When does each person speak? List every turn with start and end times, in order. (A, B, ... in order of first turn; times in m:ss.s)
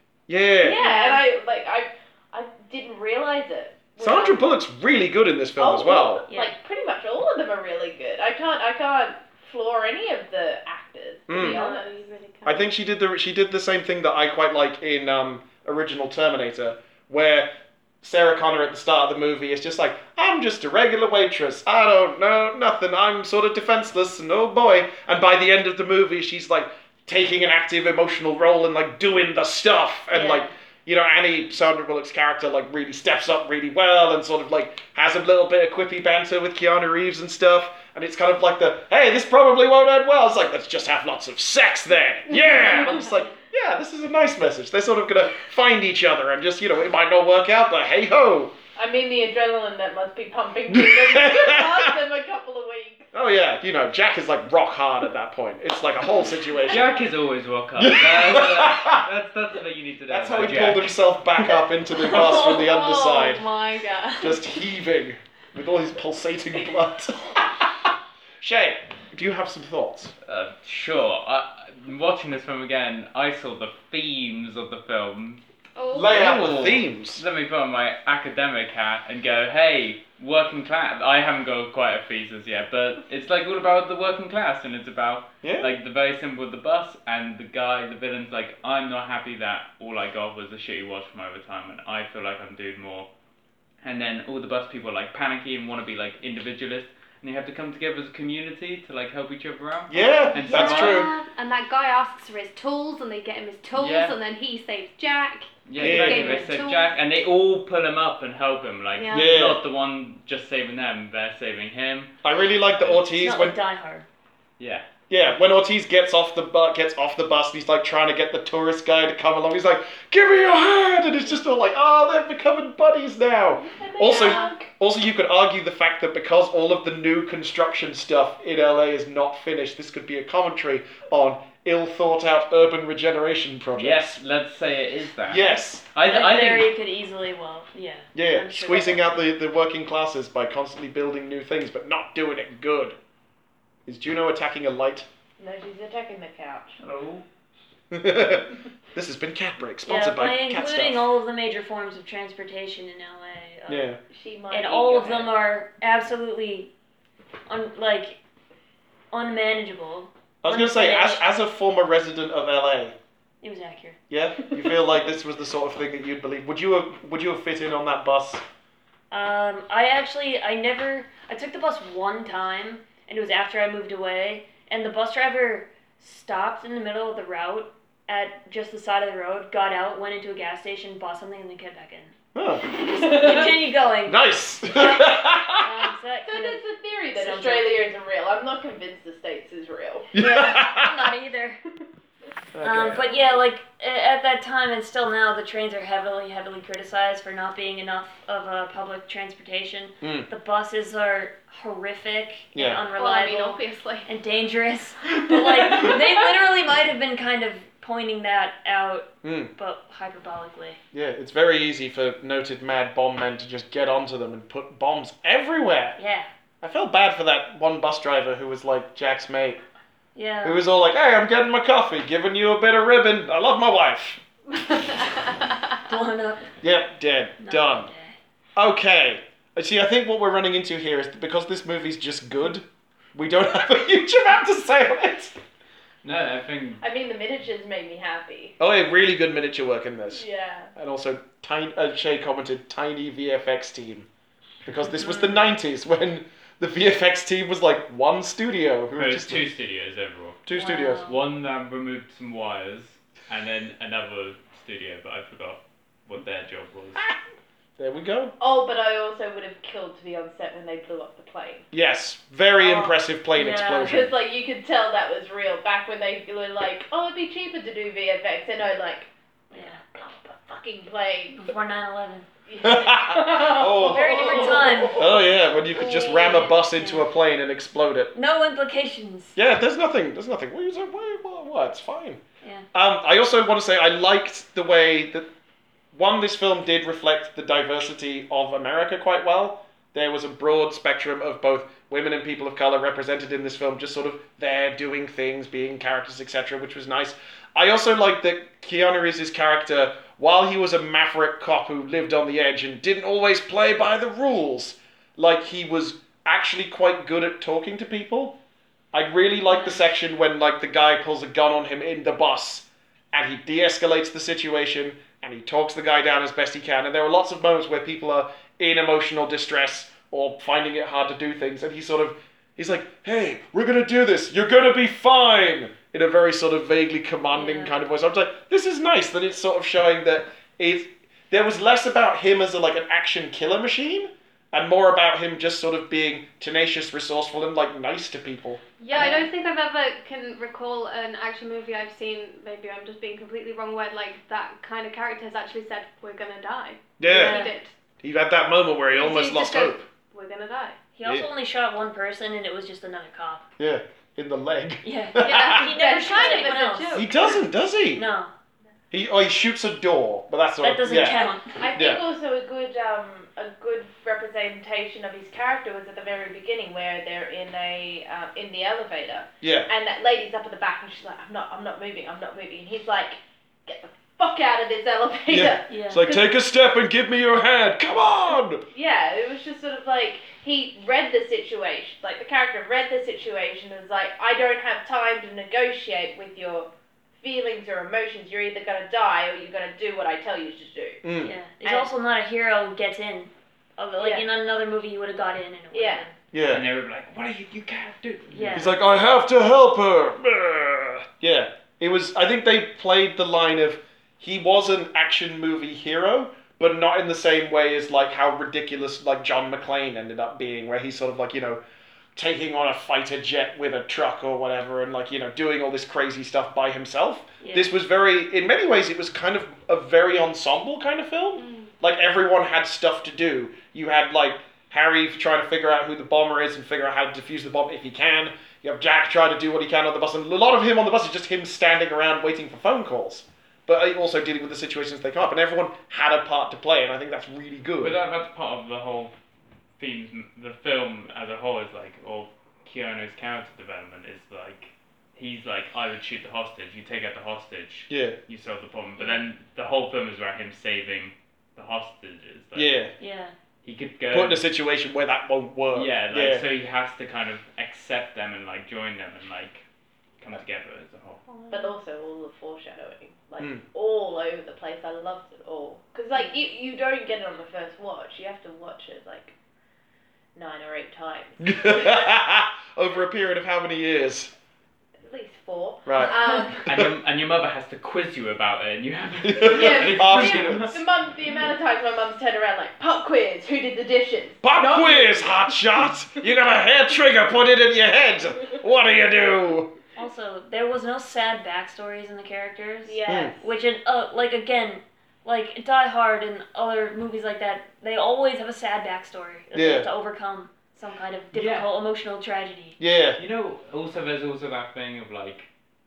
0:00.3-0:00.8 A
0:00.6-0:04.5 B
0:00.8-0:01.2 C
0:04.0-0:06.2 A
0:05.6-0:12.1 B
0:06.3-0:06.6 C
0:11.3-0:11.6 A
0:11.4-0:12.0 C
0:12.4-0:48.5 A
0:30.1-0:30.5 C
0:48.8-0:53.1 B
0:50.7-0:51.9 A
0:53.1-0:56.9 A
0:56.7-1:01.5 D
0:57.8-0:59.0 A
1:00.1-1:03.5 A
1:02.0-1:04.4 E
1:04.2-1:07.9 A
1:08.4-1:10.1 A
1:10.2-1:15.4 D
1:15.8-1:16.3 E
1:15.9-1:17.2 A
1:16.0-1:33.1 D
1:25.4-1:25.7 A
1:33.8-1:41.1 D
1:39.9-1:41.1 A
1:40.4-1:46.9 E
1:43.8-1:44.2 D
1:45.7-1:52.1 D
1:45.8-1:46.4 A
1:46.1-1:46.5 C
1:49.0-1:49.4 E
1:49.1-1:49.6 A
1:52.2-1:53.6 A
1:52.8-1:53.0 D
1:53.1-1:54.1 C
1:54.6-1:54.9 D
1:55.1-2:14.2 A
2:03.5-2:04.7 B
2:04.1-2:04.6 C
2:13.8-2:16.7 D
2:15.3-2:15.8 A
2:16.0-2:19.1 C
2:18.2-2:23.0 A
2:23.9-2:25.1 A
2:25.4-2:26.8 B
2:26.8-2:27.2 D
2:27.9-2:31.0 A
2:29.8-2:33.9 C
2:33.7-2:34.0 A
2:34.1-2:35.3 B
2:34.5-2:36.7 C
2:37.5-2:38.2 C
2:39.1-2:41.2 C
2:40.4-2:43.0 A
2:43.4-2:44.0 C
2:44.1-2:48.4 A
2:49.1-3:06.6 C
3:02.4-3:02.7 A
3:03.0-3:03.6 B
3:04.1-3:05.6 A
3:06.3-3:10.1 B
3:07.1-3:07.7 C
3:10.1-3:11.0 A
3:10.1-3:11.6 C
3:12.6-3:13.0 A
3:12.6-3:30.8 C
3:20.0-3:20.3 A
3:22.5-3:22.8 A
3:23.0-3:24.1 E
3:29.2-3:29.5 A
3:30.9-3:36.0 A
3:36.0-3:36.3 C
3:36.6-3:39.6 A
3:40.2-3:40.6 C
3:40.4-3:44.2 A
3:45.9-3:46.5 C
3:46.6-3:47.9 A
3:47.4-3:48.2 C
3:48.6-3:55.4 A
3:56.0-3:56.8 D
3:56.8-3:58.6 B
3:58.6-4:04.1 A
4:00.1-4:00.7 B
4:04.6-4:09.5 A
4:04.9-4:05.5 C
4:08.9-4:10.4 D
4:10.5-4:11.1 A
4:10.5-4:11.2 C
4:11.0-4:17.1 D
4:17.8-4:18.4 A
4:18.4-4:21.7 B
4:21.7-4:24.2 A
4:22.6-4:22.9 B
4:23.4-4:24.0 C
4:23.8-4:31.5 B
4:29.5-4:29.8 C
4:31.4-4:32.3 C
4:32.5-4:35.2 B
4:32.6-4:38.1 A
4:33.8-4:35.1 C
4:35.7-4:37.1 C
4:38.1-4:39.4 C
4:39.4-4:42.2 A
4:42.7-4:45.3 A
4:45.9-5:08.4 A
5:08.9-5:39.1 A
5:09.5-5:09.8 C
5:27.4-5:27.8 C
5:38.8-5:47.7 E
5:38.9-5:39.3 C
5:47.0-5:47.4 A
5:47.1-5:47.5 C
5:48.0-5:49.8 A
5:48.9-5:50.8 E
5:51.0-5:53.4 C
5:53.6-5:55.7 A
5:54.8-5:57.0 C
5:55.2-5:57.4 E
5:55.8-5:56.6 B
5:56.9-5:58.0 A
5:58.0-5:58.3 C
5:58.9-6:01.2 A
6:00.6-6:01.6 C
6:01.6-6:15.7 B
6:01.8-6:02.0 A
6:09.4-6:09.7 A
6:15.3-6:18.6 A
6:15.7-6:16.2 C
6:18.7-6:31.0 B
6:31.0-6:31.3 A
6:31.2-6:36.1 C
6:34.0-6:34.3 B
6:35.7-6:36.0 B
6:36.3-6:36.6 A
6:36.5-6:38.8 D
6:38.3-6:38.7 C
6:38.5-6:51.6 A
6:52.2-7:18.0 A
6:57.4-6:57.7 C
7:01.4-7:01.7 E
7:17.8-7:19.1 D
7:19.8-7:32.8 D
7:27.9-7:28.2 A
7:32.6-7:32.9 A
7:33.0-7:33.3 C
7:33.6-7:34.5 D
7:34.1-7:36.4 A
7:35.7-7:39.6 D
7:40.2-7:41.3 D
7:41.3-7:41.7 C
7:41.5-7:49.3 B
7:43.4-7:43.6 A
7:46.1-7:46.5 C
7:50.4-7:52.0 B
7:51.4-7:54.3 A
7:55.1-7:56.6 B
7:55.9-7:56.1 A
7:56.6-8:00.8 D
7:59.3-8:00.7 A
7:59.4-8:05.5 B
8:04.4-8:09.7 A
8:10.0-8:22.8 C
8:12.8-8:13.5 B
8:13.1-8:13.3 A
8:19.5-8:19.9 A
8:21.3-8:21.7 D
8:22.8-8:23.2 A
8:23.2-8:25.5 D